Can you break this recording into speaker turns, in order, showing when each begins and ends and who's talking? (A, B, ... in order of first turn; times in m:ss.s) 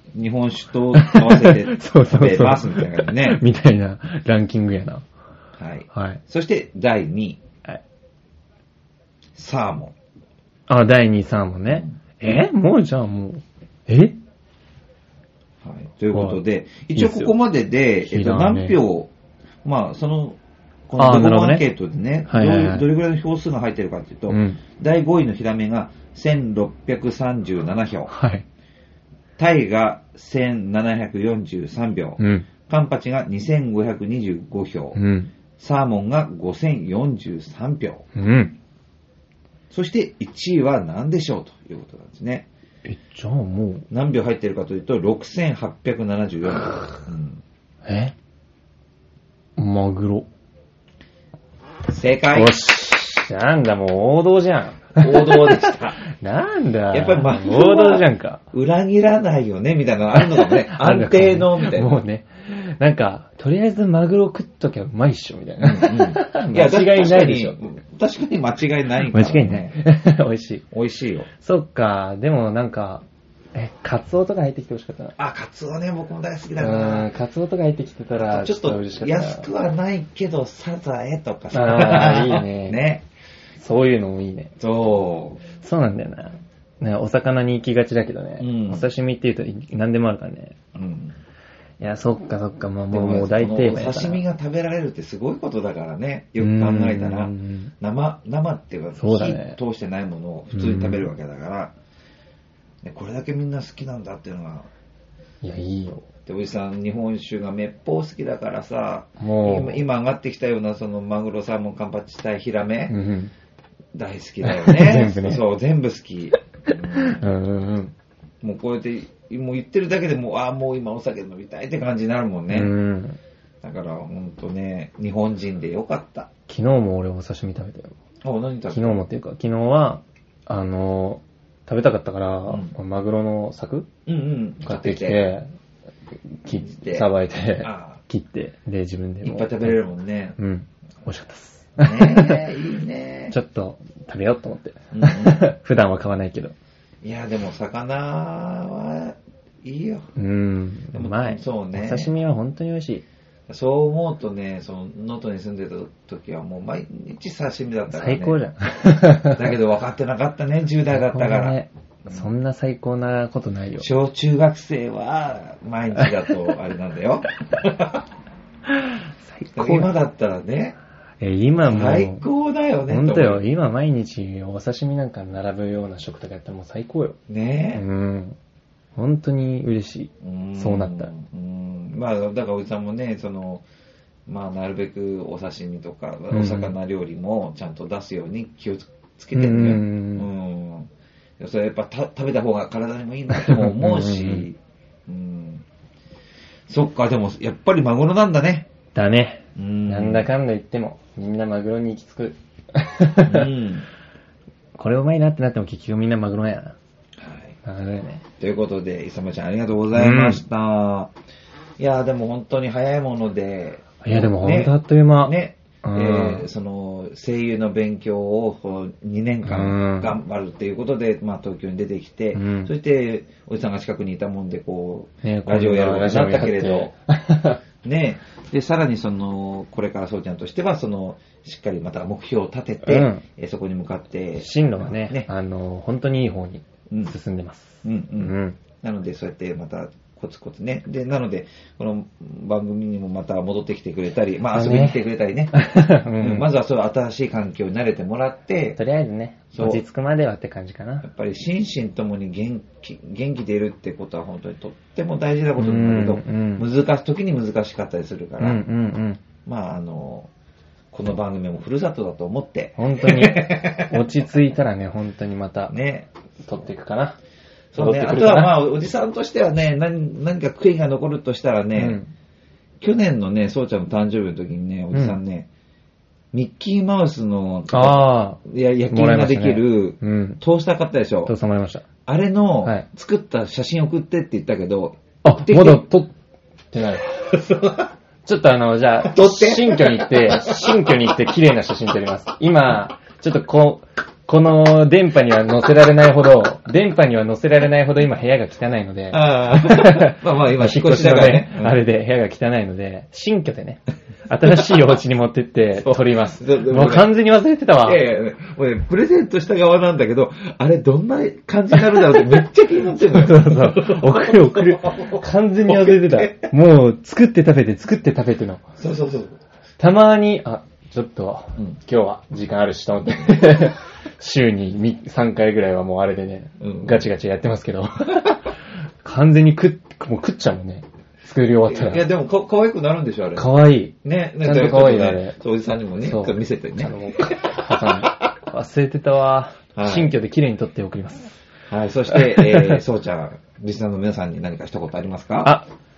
0:00.2-0:03.4 A
0:00.9-0:05.0 B
0:05.6-0:07.4 A
0:05.9-0:06.2 B
0:09.4-0:10.0 A
0:10.7-0:14.2 B
0:11.7-0:12.0 A
0:15.6-0:19.1 A
0:16.1-0:16.4 B
0:17.0-0:17.3 B
0:18.0-0:18.8 B
0:19.6-0:28.1 A
0:21.0-0:21.6 B
0:22.3-0:22.9 B
0:24.3-0:24.6 B
0:28.1-0:28.5 B
0:29.4-0:35.0 A
0:32.2-0:32.5 B
0:34.9-0:35.3 B
0:35.6-0:38.0 A
0:38.2-0:38.6 B
0:39.7-0:42.5 A
0:42.9-0:43.9 B
0:43.9-0:47.4 A
0:47.9-0:48.1 B
0:49.6-0:50.3 B
0:51.9-0:52.6 A
0:52.3-0:58.4 B
0:55.0-0:56.0 A
0:56.9-1:02.0 A
1:00.1-1:07.7 B
1:05.6-1:09.8 A
1:09.1-1:10.6 B
1:10.7-1:11.3 A
1:11.4-1:15.2 B
1:15.2-1:17.1 A
1:16.6-1:19.5 B
1:18.2-1:23.0 A
1:21.5-1:22.8 B
1:23.6-1:24.5 B
1:24.6-1:25.4 A
1:25.6-1:30.6 B
1:28.4-1:28.9 A
1:30.8-1:31.2 A
1:31.8-1:34.2 B
1:32.9-1:41.8 A
1:36.4-1:37.7 B
1:39.0-1:39.6 B
1:40.5-1:41.1 B
1:42.8-1:44.7 A
1:45.4-1:46.0 B
1:46.3-1:53.0 A
1:49.2-1:49.8 B
1:52.9-1:53.3 B
1:53.9-1:57.2 A
1:54.4-1:55.4 B
1:57.0-1:57.9 B
1:58.4-2:02.8 A
2:02.5-2:03.2 B
2:03.6-2:06.3 A
2:06.5-2:08.0 B
2:08.2-2:09.0 A
2:08.7-2:13.9 B
2:12.5-2:12.8 A
2:14.1-2:15.2 A
2:14.6-2:15.5 B
2:16.4-2:19.8 B
2:16.6-2:17.1 A
2:17.6-2:18.0 A
2:19.2-2:20.4 A
2:20.4-2:22.5 B
2:21.8-2:23.4 A
2:23.3-2:26.6 B
2:24.9-2:25.4 A
2:27.0-2:30.1 A
2:30.2-2:33.0 B
2:30.9-2:32.1 A
2:33.5-2:38.4 A
2:37.9-2:39.6 B
2:39.3-2:42.3 A
2:40.9-2:43.9 B
2:43.8-2:48.0 A
2:48.7-2:49.9 B
2:49.6-2:50.8 A
2:51.2-2:52.3 B
2:51.6-2:53.4 A
2:52.9-2:57.2 B
2:57.3-2:57.8 A
2:57.7-2:58.4 B
2:59.0-3:01.1 B
3:00.2-3:03.6 A
3:04.3-3:15.6 A
3:06.3-3:06.8 B
3:09.3-3:10.3 B
3:13.3-3:14.5 B
3:16.7-3:18.7 A
3:18.9-3:23.5 B
3:19.6-3:20.3 A
3:23.2-3:23.9 A
3:24.8-3:26.8 B
3:27.2-3:27.6 A
3:27.6-3:28.2 B
3:28.4-3:31.1 A
3:29.9-3:30.4 B
3:31.8-3:46.9 A
3:34.0-3:36.4 B
3:39.4-3:40.2 B
3:42.3-3:42.7 B
3:45.2-3:47.6 B
3:47.8-3:55.3 A
3:52.8-3:53.2 B
3:54.4-3:58.6 B
3:57.8-4:05.6 A
4:04.5-4:05.0 B
4:05.5-4:06.5 B
4:06.2-4:08.8 A
4:08.8-4:11.1 B
4:09.5-4:09.8 A
4:11.0-4:18.7 A
4:15.6-4:16.7 B
4:18.4-4:19.2 B
4:19.4-4:20.3 A
4:20.9-4:24.0 A
4:22.8-4:25.7 B
4:25.7-4:26.1 A
4:26.4-4:27.2 B
4:27.7-4:32.0 A
4:27.8-4:28.6 B
4:31.8-4:32.1 B
4:32.8-4:35.5 A
4:34.9-4:35.2 B
4:36.3-4:41.3 A
4:37.7-4:40.4 B
4:41.3-4:41.8 B
4:42.1-4:45.9 A
4:45.2-4:46.1 B
4:46.7-4:47.1 B
4:47.3-4:47.9 A
4:48.2-5:08.0 B
4:49.1-4:50.7 A
4:59.1-5:01.8 A
5:05.8-5:07.2 A
5:07.8-5:16.5 A
5:12.9-5:18.6 B
5:18.8-5:19.4 A
5:19.8-5:32.1 B
5:26.6-5:27.1 A
5:31.7-5:38.1 A
5:33.4-5:35.4 B
5:36.0-5:41.4 B
5:39.8-5:40.1 A
5:41.7-5:45.6 A
5:42.1-5:42.8 B
5:45.4-5:45.7 B